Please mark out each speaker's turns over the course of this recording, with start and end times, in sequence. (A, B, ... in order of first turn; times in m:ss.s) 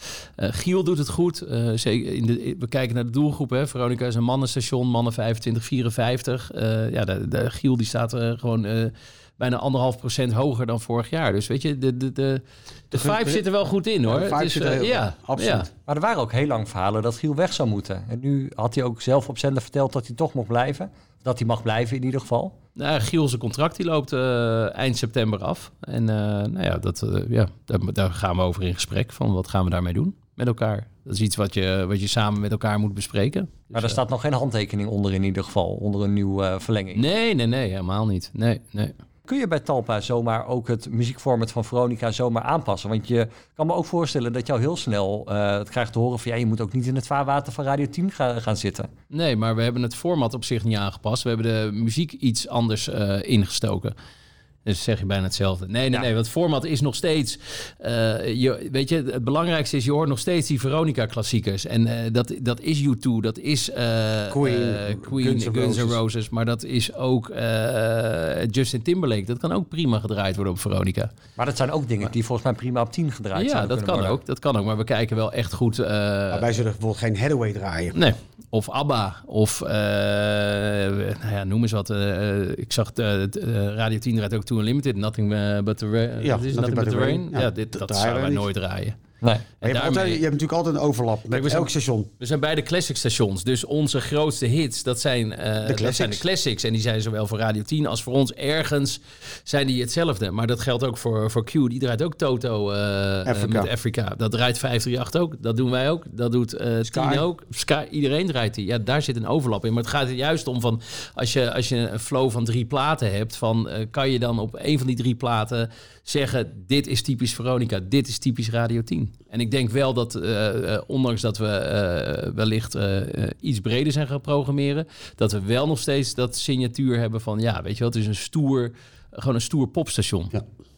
0:00.4-0:15.7 A
0:12.9-0:13.4 B
0:14.1-0:15.7 B
0:15.9-0:22.5 C
0:22.8-0:34.0 A
0:33.7-0:37.0 C
0:36.9-0:38.9 A
0:39.3-0:48.9 C
0:49.1-0:53.9 A
0:54.6-1:11.1 A
1:04.3-1:06.0 B
1:11.4-1:14.2 C
1:13.4-1:16.5 A
1:16.3-1:18.0 B
1:17.9-1:29.0 A
1:26.2-1:28.4 B
1:29.6-1:30.2 A
1:29.6-1:32.1 B
1:31.3-2:10.4 A
1:35.6-1:36.2 B
1:43.2-1:43.7 B
1:46.8-1:47.2 B